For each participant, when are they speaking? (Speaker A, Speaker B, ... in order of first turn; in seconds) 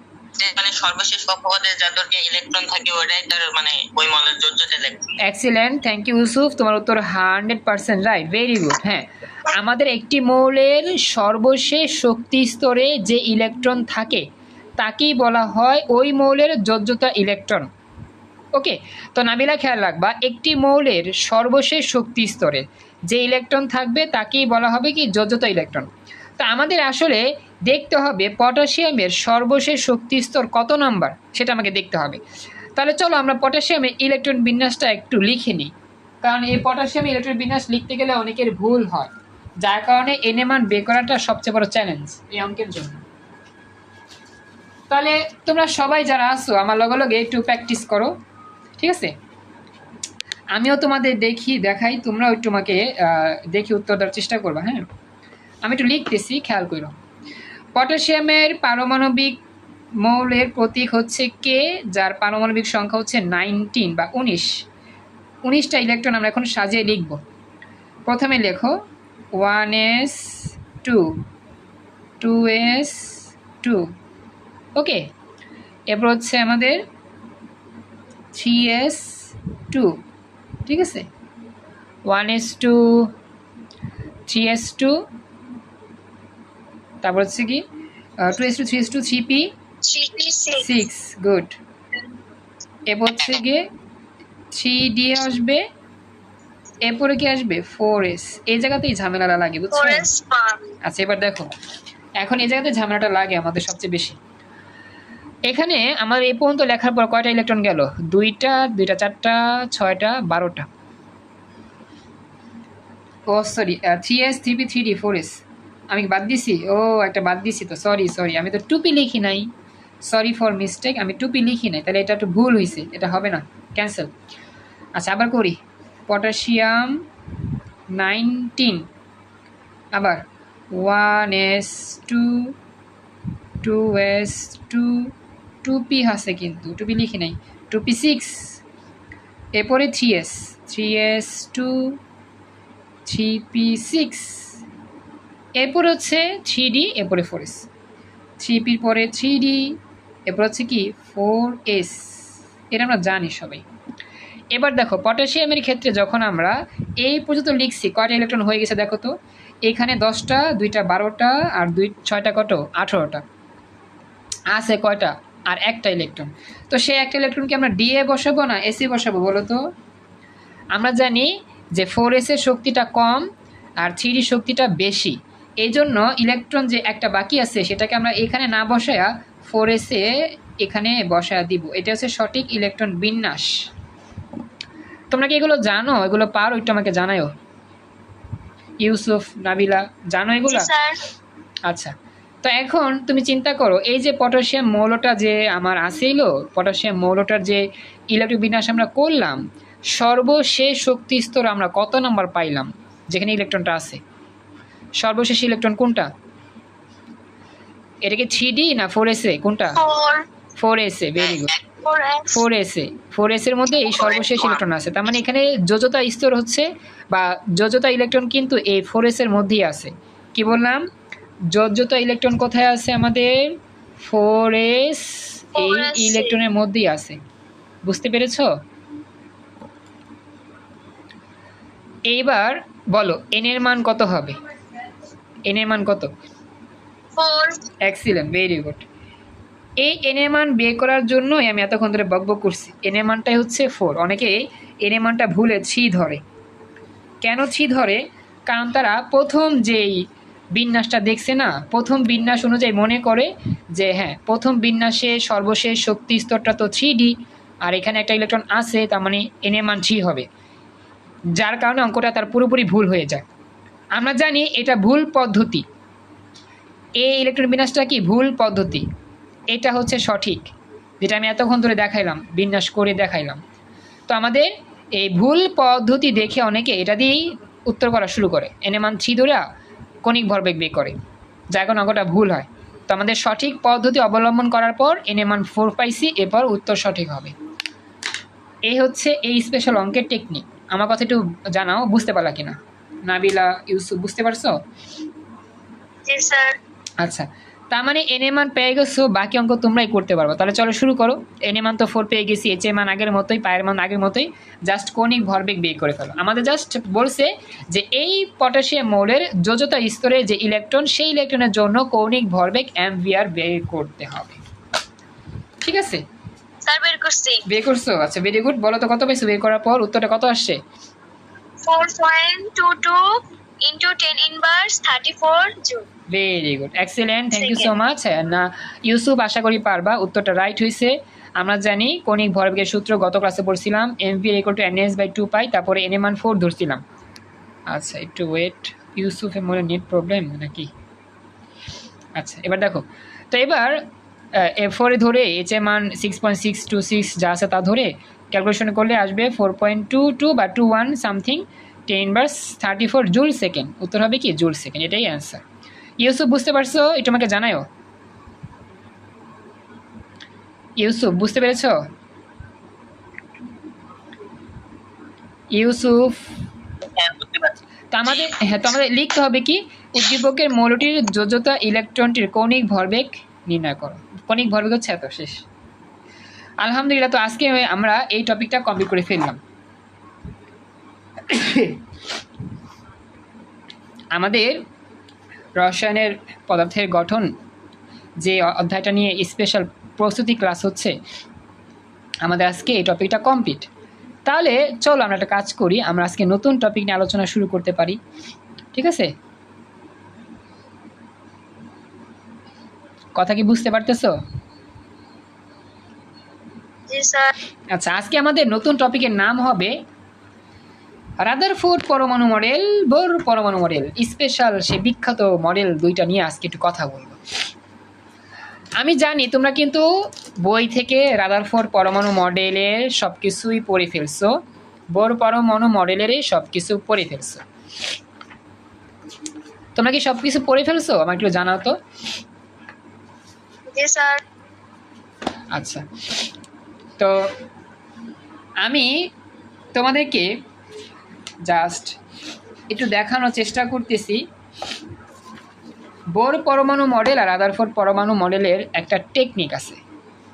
Speaker A: 0.4-5.2, 211.2-211.6, 213.9-214.6, 367.0-367.5
Speaker B: 5.2-14.2, 14.8-17.7, 18.6-25.9, 26.4-32.2, 32.8-43.0, 44.9-48.1, 48.8-49.1, 50.5-54.9, 55.6-56.9, 57.8-59.4, 60.0-64.5, 65.4-67.2, 68.1-68.7, 69.3-71.1, 72.2-73.9, 74.8-75.1, 75.9-76.8, 78.3-80.0, 80.7-81.1, 82.1-83.1, 84.3-85.0, 87.0-87.6, 88.2-89.5, 90.6-91.6, 92.9-93.7, 94.5-95.6, 96.8-100.1, 100.8-101.5, 102.2-104.2, 105.5-110.7, 113.3-115.4, 115.9-119.5, 120.1-124.1, 125.0-127.0, 127.9-128.9, 130.0-130.2, 130.7-132.5, 133.6-135.1, 135.6-138.6, 139.6-142.0, 143.1-144.5, 145.6-147.7, 148.4-149.8, 150.3-152.0, 152.7-153.6, 154.5-159.1, 159.7-163.2, 164.5-169.6, 170.8-173.2, 173.8-180.1, 180.6-183.5, 185.1-187.3, 188.8-190.7, 191.7-191.9, 192.4-199.4, 199.9-204.0, 205.0-206.1, 208.1-209.8, 210.6-211.6, 212.3-220.8, 221.5-227.2, 227.8-228.5, 232.1-234.4, 235.5-236.1, 237.8-238.8, 239.8-246.2, 247.2-250.0, 250.6-260.3, 261.4-263.2, 264.0-265.6, 267.0-268.9, 269.5-270.5, 271.0-273.4, 274.1-279.4, 280.0-281.0, 281.5-287.3, 288.7-294.6, 297.0-314.4, 315.6-316.0, 317.5-320.6, 326.1-336.8, 337.7-340.7, 342.2-343.8, 344.4-355.4, 356.0-357.7, 360.8-361.8, 365.5-366.2, 367.9-375.4, 376.6-379.4, 381.3-381.8, 384.2-384.6, 385.6-387.3, 388.2-390.9, 392.2-393.7, 394.3-398.0, 398.7-399.1, 403.2-404.1, 407.7-409.7, 411.2-417.2, 418.8-419.9, 420.4-424.4, 424.9-427.4, 429.8-431.8, 435.5-435.9, 437.0-437.3, 438.6-439.1, 439.8-440.3, 441.5-442.0, 442.7-444.2, 446.1-449.8
Speaker C: 89.8-90.7, 99.7-100.6, 190.5-191.0, 209.8-210.2, 211.8-212.4, 225.6-226.3, 237.2-237.7, 296.1-296.6, 316.6-317.4, 321.6-325.9, 327.4-327.7, 406.9-407.3, 433.7-434.2